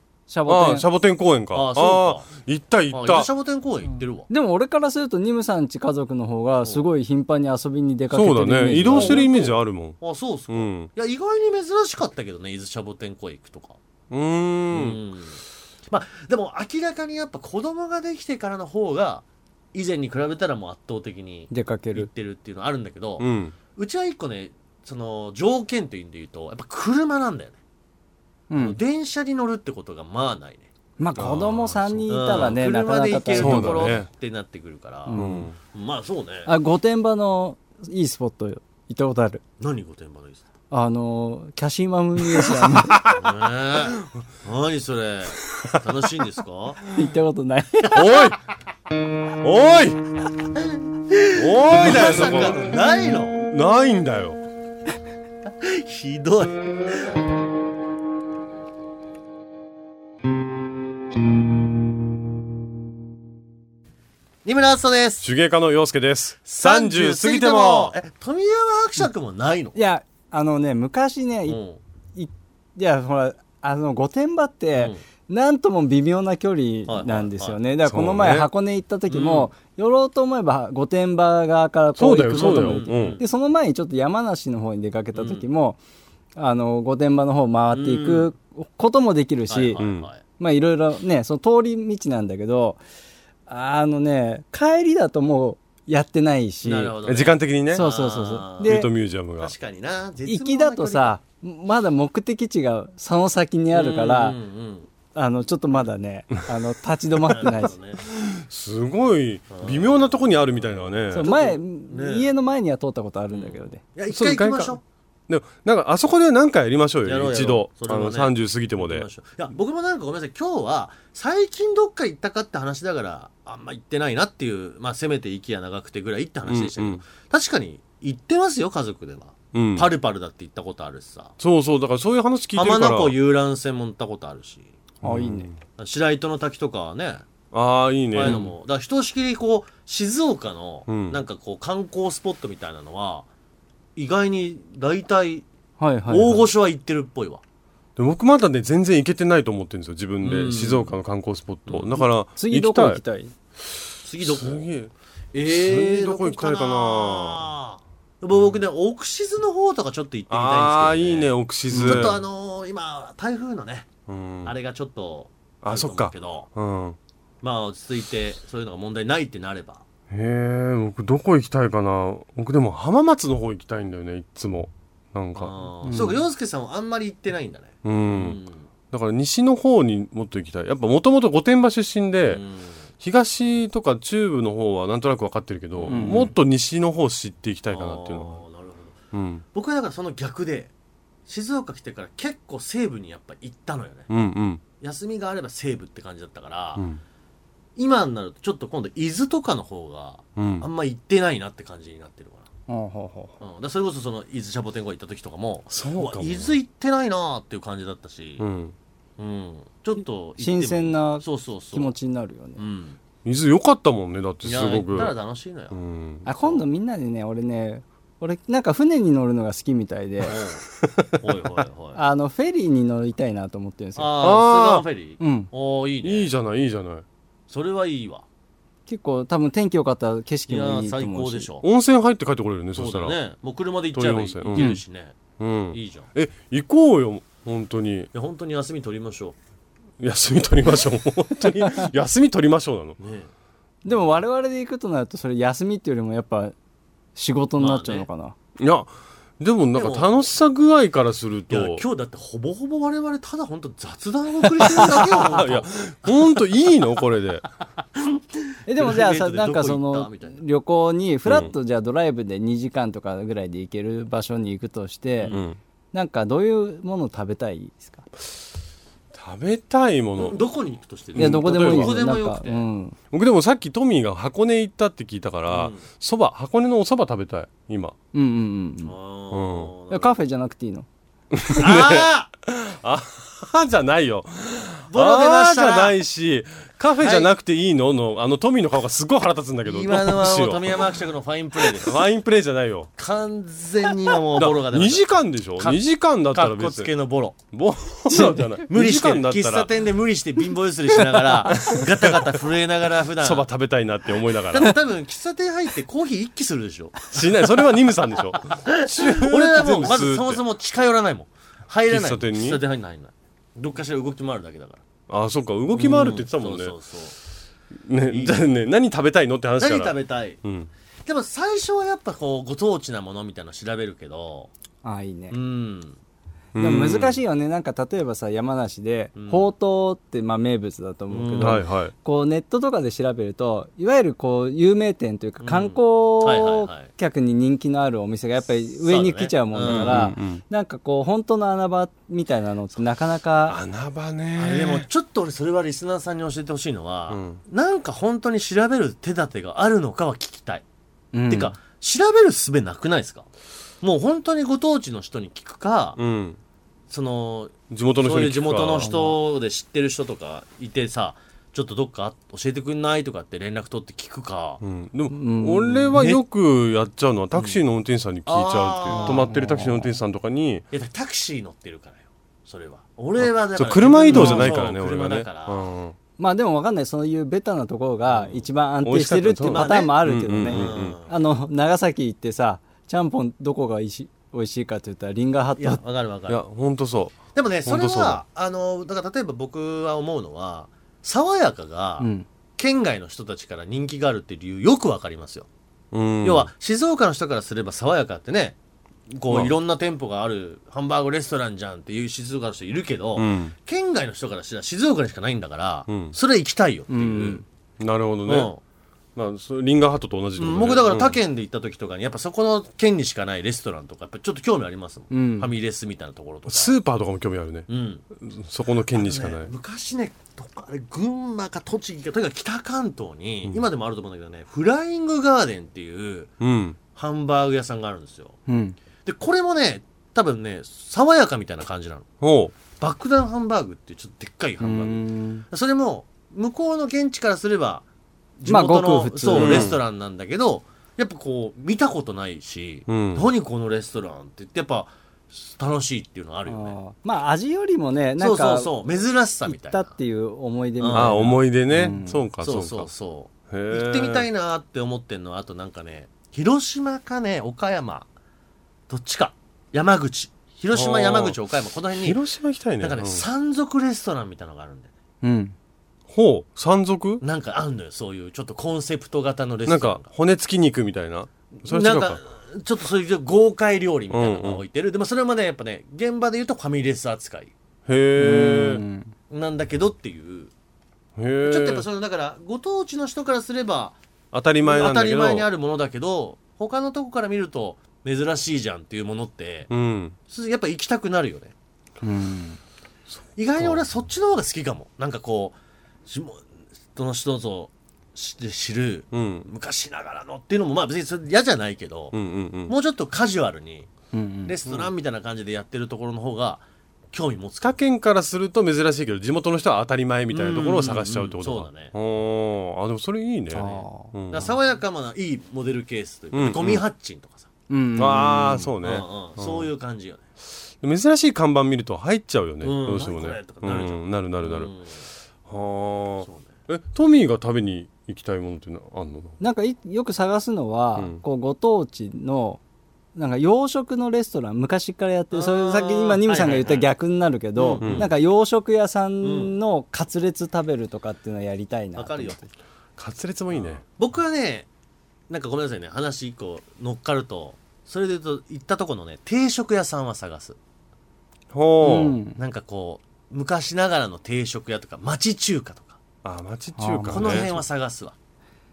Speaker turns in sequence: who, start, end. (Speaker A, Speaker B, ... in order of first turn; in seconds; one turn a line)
Speaker A: 0.3-0.8
Speaker B: 0.5-3.3
Speaker C: 1.5-2.3
Speaker C: 2.9-4.3
Speaker A: 4.3-9.3
Speaker B: 8.1-10.9
Speaker C: 8.9-13.8
Speaker B: 14.1-15.0
Speaker C: 14.7-27.6
Speaker A: 21.5-22.1
Speaker B: 23.2-23.5
Speaker A: 28.5-28.8
Speaker C: 28.6-30.7
Speaker A: 31.0-34.0
Speaker B: 31.1-32.5
Speaker C: 32.1-36.5
Speaker B: 33.3-34.1
Speaker A: 35.0-35.5
Speaker B: 35.2-35.5
Speaker A: 36.5-39.4
Speaker C: 39.6-40.4
Speaker A: 40.7-43.1
Speaker C: 43.1-46.8
Speaker B: 45.5-45.8
Speaker A: 46.9-48.1
Speaker B: 47.9-48.4
Speaker B: 49.4-50.0
Speaker C: 50.6-53.4
Speaker B: 51.3-54.4
Speaker C: 55.5-57.1
Speaker C: 64.4-65.2
Speaker B: 65.2-68.0
Speaker C: 66.5-69.8
Speaker A: 69.8-71.6
Speaker C: 71.5-71.8
Speaker A: 72.1-85.8
Speaker C: 74.8-75.0
Speaker C: 76.9-77.6
Speaker B: 77.8-78.5
Speaker C: 79.1-79.5
Speaker B: 82.0-83.2
Speaker C: 82.3-83.2
Speaker C: 85.1-85.4
Speaker A: 86.3-89.8
Speaker C: 87.7-88.3
Speaker C: 89.5-90.2
Speaker B: 89.8-90.1
Speaker A: 90.4-92.8
Speaker A: 93.5-96.9
Speaker C: 96.6-98.8
Speaker B: 97.0-97.8
Speaker A: 97.7-98.9
Speaker B: 98.6-99.5
Speaker C: 99.4-101.2
Speaker A: 100.3-104.4
Speaker C: 103.7-104.9
Speaker A: 105.1-107.7
Speaker C: 107.2-108.0
Speaker B: 108.1-111.3
Speaker C: 109.5-112.3
Speaker A: 111.1-113.8
Speaker C: 113.3-114.8
Speaker B: 114.1-114.8
Speaker B: 115.3-119.0
Speaker C: 117.0-131.3
Speaker B: 126.5-127.0
Speaker B: 129.5-129.9
Speaker B: 131.4-133.2
Speaker C: 132.5-134.7
Speaker A: 135.0-135.5
Speaker B: 135.0-135.6
Speaker C: 135.8-137.3
Speaker B: 137.5-138.4
Speaker C: 138.1-143.3
Speaker B: 140.9-141.2
Speaker C: 143.9-145.4
Speaker A: 145.8-146.5
Speaker C: 146.1-147.4
Speaker B: 147.9-153.0
Speaker C: 150.2-150.9
Speaker C: 151.7-152.0
Speaker A: 152.4-153.3
Speaker B: 153.6-154.9
Speaker C: 154.0-154.7
Speaker C: 155.3-163.9
Speaker B: 155.4-157.5
Speaker B: 160.3-162.2
Speaker B: 164.1-164.5
Speaker C: 164.4-166.5
Speaker B: 165.6-167.0
Speaker C: 167.4-169.8
Speaker B: 170.1-175.5
Speaker C: 175.3-178.7
Speaker A: 175.8-176.2
Speaker B: 177.8-178.4
Speaker B: 178.9-182.4
Speaker C: 182.2-182.9
Speaker B: 183.0-188.4
Speaker C: 185.7-186.3
Speaker A: 185.9-186.3
Speaker C: 187.7-189.0
Speaker B: 189.1-189.4
Speaker C: 189.5-190.7
Speaker C: 191.3-194.1
Speaker B: 194.1-194.6
Speaker C: 194.8-196.9
Speaker B: 196.8-197.0
Speaker C: 197.8-202.5
Speaker B: 200.4-200.7
Speaker A: 202.7-203.3
Speaker C: 203.4-208.4
Speaker B: 205.7-206.6
Speaker B: 208.4-208.7
Speaker C: 209.2-211.9
Speaker A: 210.4-212.6
Speaker C: 212.6-213.0
Speaker B: 213.2-215.1
Speaker C: 214.4-216.6
Speaker B: 215.7-216.2
Speaker A: 216.2-220.3
Speaker C: 220.2-220.6
Speaker C: 221.2-222.0
Speaker A: 221.9-224.1
Speaker C: 223.9-226.3
Speaker B: 224.2-224.8
Speaker A: 225.2-225.5
Speaker B: 226.0-227.0
Speaker C: 227.5-228.2
Speaker A: 228.9-231.5
Speaker C: 230.5-231.7
Speaker B: 231.6-233.2
Speaker C: 232.7-235.2
Speaker B: 233.9-234.8
Speaker A: 234.5-234.8
Speaker B: 235.4-238.1
Speaker C: 235.7-236.1
Speaker C: 238.1-239.3
Speaker B: 240.0-243.0
Speaker C: 243.0-243.3
Speaker A: 243.8-246.5
Speaker C: 243.9-244.1
Speaker A: 247.2-248.3
Speaker C: 247.6-248.1
Speaker B: 248.6-251.8
Speaker C: 249.7-250.1
Speaker C: 251.5-256.4
Speaker B: 254.6-257.5
Speaker C: 257.9-258.2
Speaker A: 258.7-265.3
Speaker C: 258.8-260.4
Speaker B: 261.2-261.5
Speaker B: 265.3-265.6
Speaker A: 265.9-268.0
Speaker B: 269.1-270.4
Speaker C: 270.2-272.6
Speaker B: 271.1-272.0
Speaker A: 271.1-272.9
Speaker B: 273.1-277.9
Speaker C: 275.5-275.8
Speaker A: 278.1-278.9
Speaker C: 278.8-280.2
Speaker B: 279.3-279.7
Speaker A: 279.9-280.9
Speaker B: 281.3-290.9
Speaker C: 281.6-282.3
Speaker C: 284.9-286.0
Speaker C: 287.0-287.3
Speaker C: 289.6-292.0
Speaker B: 291.6-292.9
Speaker C: 293.0-297.4
Speaker B: 294.4-296.9
Speaker B: 297.5-299.7
Speaker A: 298.1-298.5
Speaker C: 298.6-303.5
Speaker B: 301.5-302.2
Speaker B: 303.2-304.8
Speaker C: 304.5-307.0
Speaker B: 307.1-310.4
Speaker C: 308.6-314.8
Speaker B: 311.9-312.6
Speaker B: 315.1-316.8
Speaker C: 315.7-317.2
Speaker B: 317.8-320.7
Speaker C: 318.1-318.4
Speaker C: 319.6-320.4
Speaker C: 321.1-324.5
Speaker A: 324.8-325.4
Speaker C: 325.3-326.0
Speaker B: 326.5-327.2
Speaker A: 326.5-343.6
Speaker C: 329.1-329.5
Speaker C: 331.1-331.6
Speaker B: 331.4-331.9
Speaker C: 335.4-336.9
Speaker C: 338.8-340.0
Speaker B: 339.6-340.4
Speaker B: 343.4-344.9
Speaker C: 344.4-350.6
Speaker B: 347.1-347.4
Speaker A: 351.1-351.5
Speaker C: 351.3-353.3
Speaker C: 353.8-356.0
Speaker B: 355.9-356.4
Speaker C: 356.9-364.6
Speaker B: 357.7-358.9
Speaker A: 358.8-359.2
Speaker B: 364.6-370.6
Speaker A: 365.1-366.0
Speaker C: 365.9-366.2
Speaker C: 367.3-367.6
Speaker C: 368.2-369.2
Speaker A: 368.9-369.9
Speaker C: 370.7-375.7
Speaker B: 373.2-375.9
Speaker A: 374.1-374.5
Speaker A: 376.2-385.8
Speaker C: 378.1-378.4
Speaker B: 378.8-381.0
Speaker C: 379.5-381.1
Speaker C: 385.6-386.4
Speaker B: 386.3-388.2
Speaker C: 387.3-392.1
Speaker A: 392.0-392.2
Speaker C: 392.6-395.5
Speaker B: 395.9-396.5
Speaker C: 396.2-398.6
Speaker C: 399.1-407.4
Speaker B: 399.3-399.6
Speaker B: 403.1-403.5
Speaker B: 405.9-406.1
Speaker A: 406.9-407.4
Speaker B: 407.8-408.5
Speaker C: 408.2-408.6
Speaker B: 409.1-411.2
Speaker C: 410.4-416.8
Speaker A: 415.1-415.5
Speaker B: 416.4-417.7
Speaker C: 417.7-418.0
Speaker B: 418.2-419.5
Speaker C: 418.9-426.3
Speaker B: 426.4-426.8
Speaker C: 426.9-428.4
Speaker A: 428.5-428.8
Speaker C: 429.0-432.1
Speaker B: 432.2-432.5
Speaker C: 432.7-437.8
Speaker A: 434.6-435.4
Speaker C: 438.4-446.8
Speaker A: 438.4-439.7
Speaker B: 439.3-439.8
Speaker B: 442.9-443.3
Speaker A: 446.5-448.8
Speaker C: 448.2-449.9
Speaker A: 449.4-452.3
Speaker C: 450.8-451.2
Speaker B: 450.9-452.9
Speaker C: 452.4-458.1
Speaker B: 453.5-454.3
Speaker C: 458.9-462.2
Speaker B: 460.7-461.4
Speaker B: 461.9-463.2
Speaker C: 462.8-464.9
Speaker A: 465.2-465.5
Speaker B: 466.1-467.2
Speaker C: 467.2-470.1
Speaker B: 469.7-472.2
Speaker C: 471.6-477.5
Speaker B: 474.1-474.6
Speaker B: 477.9-478.8
Speaker A: 478.2-479.1
Speaker C: 479.3-480.5
Speaker B: 481.2-481.9
Speaker C: 481.4-484.0
Speaker B: 484.3-485.5
Speaker C: 484.6-489.7
Speaker B: 489.7-490.1
Speaker C: 490.3-491.5
Speaker A: 492.0-492.6
Speaker B: 493.1-493.8
Speaker C: 493.4-495.6
Speaker C: 496.1-496.4
Speaker C: 496.9-502.2
Speaker B: 499.1-499.4
Speaker B: 502.1-502.7
Speaker C: 502.7-503.9
Speaker A: 504.1-504.5
Speaker C: 504.4-507.8
Speaker B: 507.6-514.6
Speaker C: 510.3-511.9
Speaker A: 513.5-514.1
Speaker C: 513.5-517.5
Speaker B: 516.3-516.8
Speaker A: 517.7-518.7
Speaker B: 518.0-519.7
Speaker C: 518.8-520.2
Speaker B: 520.8-524.7
Speaker C: 522.6-525.0
Speaker B: 525.5-529.4
Speaker C: 526.2-526.5
Speaker A: 529.4-532.6
Speaker A: 533.1-542.5
Speaker C: 535.3-536.9
Speaker C: 537.5-538.1
Speaker B: 537.8-538.1
Speaker C: 539.2-539.5
Speaker C: 541.9-542.4
Speaker B: 543.0-543.8
Speaker C: 543.6-544.7
Speaker C: 545.3-550.6
Speaker B: 551.5-552.2
Speaker A: 551.8-552.4
Speaker C: 552.4-556.0
Speaker B: 556.2-557.6
Speaker A: 556.8-557.3
Speaker C: 557.1-558.1